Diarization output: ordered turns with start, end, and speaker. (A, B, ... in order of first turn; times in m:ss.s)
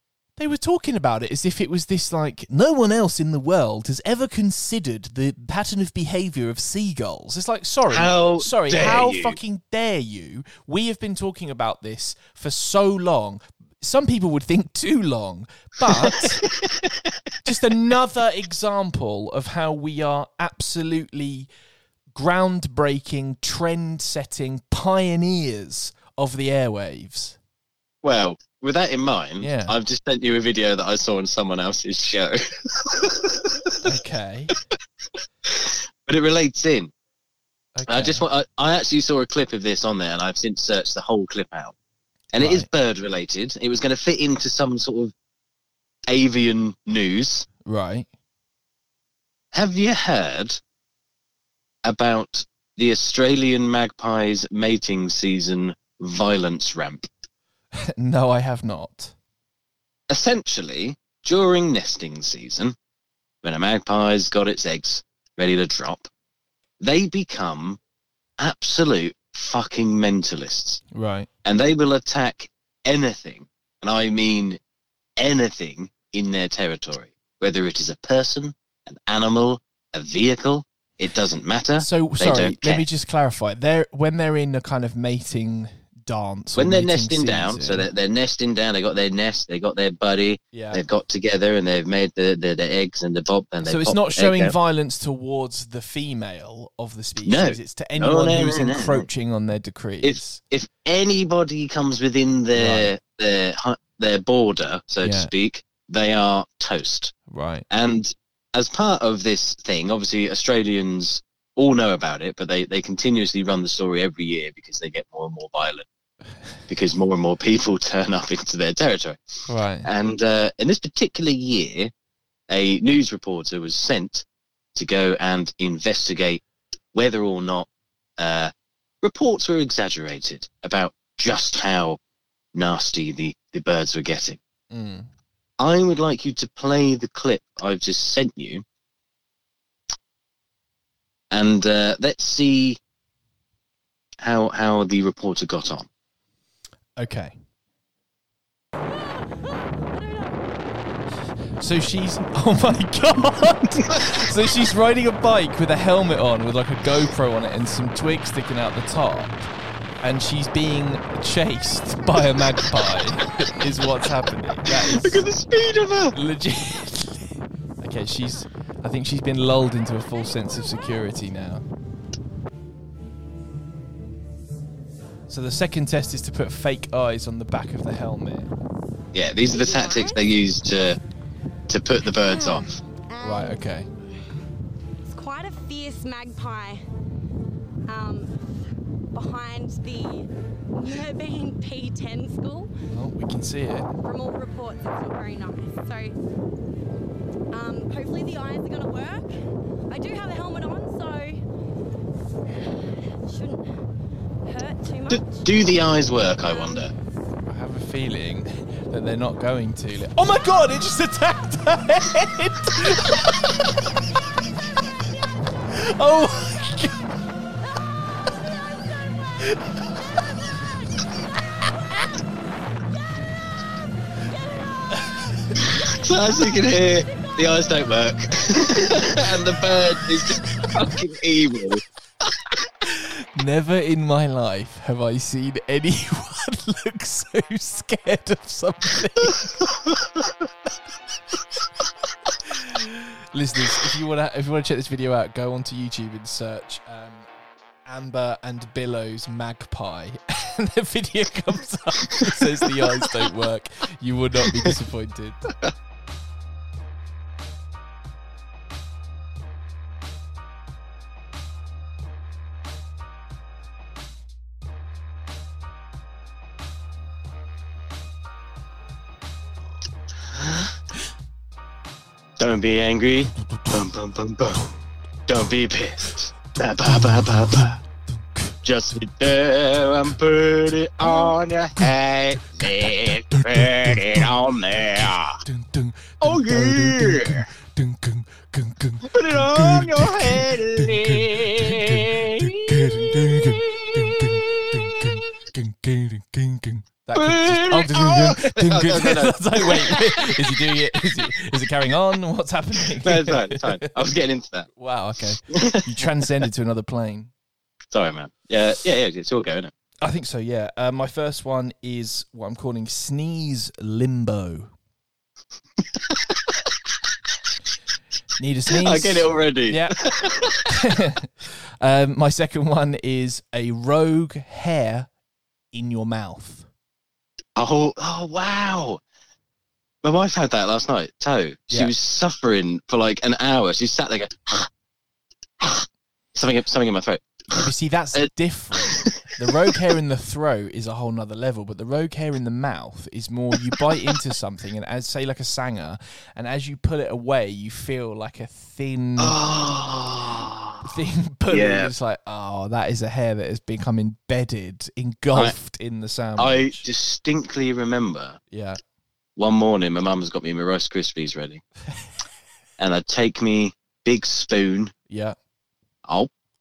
0:00.4-0:16.4 A
0:07.9-0:09.4 B
0:16.2-0:16.9 B
0:17.4-0:21.5 A
0:22.1-0:27.4 A
0:28.0-0:33.8 B
0:29.4-0:29.8 A
0:33.8-0:34.5 A
0:35.4-0:36.9 B
0:37.8-0:38.2 A
0:37.9-0:41.7 B
0:42.3-0:45.1 B
0:42.4-0:42.7 A
0:46.1-0:47.5 B
0:47.6-0:48.1 A
0:49.5-0:50.6 B
0:51.8-0:57.1 B
0:57.8-0:59.1 A
1:00.1-1:02.7 B
1:03.4-1:06.1 B
1:06.8-1:07.8 B
1:08.4-1:10.8 B
1:10.9-1:11.3 A
1:11.4-1:14.6 B
1:15.2-1:22.8 B
1:21.8-1:27.8 A
1:26.6-1:34.5 B
1:30.5-1:30.8 A
1:33.6-1:40.4 A
1:37.2-1:39.0 B
1:40.0-1:47.2 B
1:42.6-1:42.9 A
1:45.0-1:45.3 A
1:47.3-1:47.6 A
1:47.7-1:55.8 B
1:56.7-1:59.2 B
1:59.5-1:59.9 A
1:59.8-2:01.9 B
2:02.5-2:04.2 B
2:04.8-2:06.4 B
2:06.9-2:07.7 B
2:08.2-2:08.5 B
2:09.0-2:12.0 B
2:12.5-2:14.4 B
2:14.7-2:15.1 A
2:15.6-2:18.6 B
2:21.3-2:22.8 B
2:24.2-2:25.9 B
2:27.0-2:27.3 A
2:28.8-2:30.6 C
2:31.6-2:39.5 A
2:40.0-2:45.2 A
2:44.6-2:46.2 B
2:46.1-2:51.6 A
2:55.3-2:58.5 A
2:59.1-3:01.0 B
2:59.4-3:00.3 C
3:01.7-3:02.8 B
3:02.2-3:04.2 C
3:03.2-3:03.9 A
3:05.0-3:06.8 C
3:07.9-3:08.3 C
3:09.1-3:12.7 C
3:12.9-3:13.9 A
3:14.0-3:16.2 C
3:17.5-3:21.4 C
3:22.8-3:23.7 C
3:24.4-3:25.7 C
3:25.1-3:26.9 B
3:26.4-3:26.9 C
3:27.5-3:33.8 A
3:35.7-3:37.0 A
3:39.5-3:39.7 A
3:45.6-3:51.8 B
3:53.0-3:59.6 A
3:59.7-4:00.3 B
4:02.5-4:07.3 A
4:07.8-4:15.4 A
4:30.4-4:30.7 B
4:32.4-4:34.6 B
4:33.4-4:33.7 A
4:35.3-4:37.8 B
4:36.5-4:38.6 A
4:38.6-4:45.4 B
4:41.0-4:41.9 A
4:42.4-5:03.9 A
4:46.2-4:47.4 B
4:49.1-4:55.0 B
4:57.1-5:00.3 B
5:03.0-5:04.7 B
5:04.8-5:07.3 A
5:05.5-5:06.0 B
5:07.9-5:09.7 B
5:10.0-5:14.7 A
5:16.1-5:16.6 B
5:18.4-5:19.9 A
5:18.7-5:20.7 B
5:20.7-5:25.1 A
5:25.7-5:26.7 A
5:27.6-5:29.0 B
5:30.0-5:34.7 B
5:36.3-5:37.6 B
5:37.5-5:49.4 A
5:38.8-5:39.1 B
5:49.2-5:50.8 B
5:50.8-5:56.8 A
5:51.5-5:51.9 B
5:56.4-5:58.4 B
5:58.5-5:58.8 A
5:59.4-6:01.6 B
6:02.8-6:04.9 B
6:05.1-6:05.4 A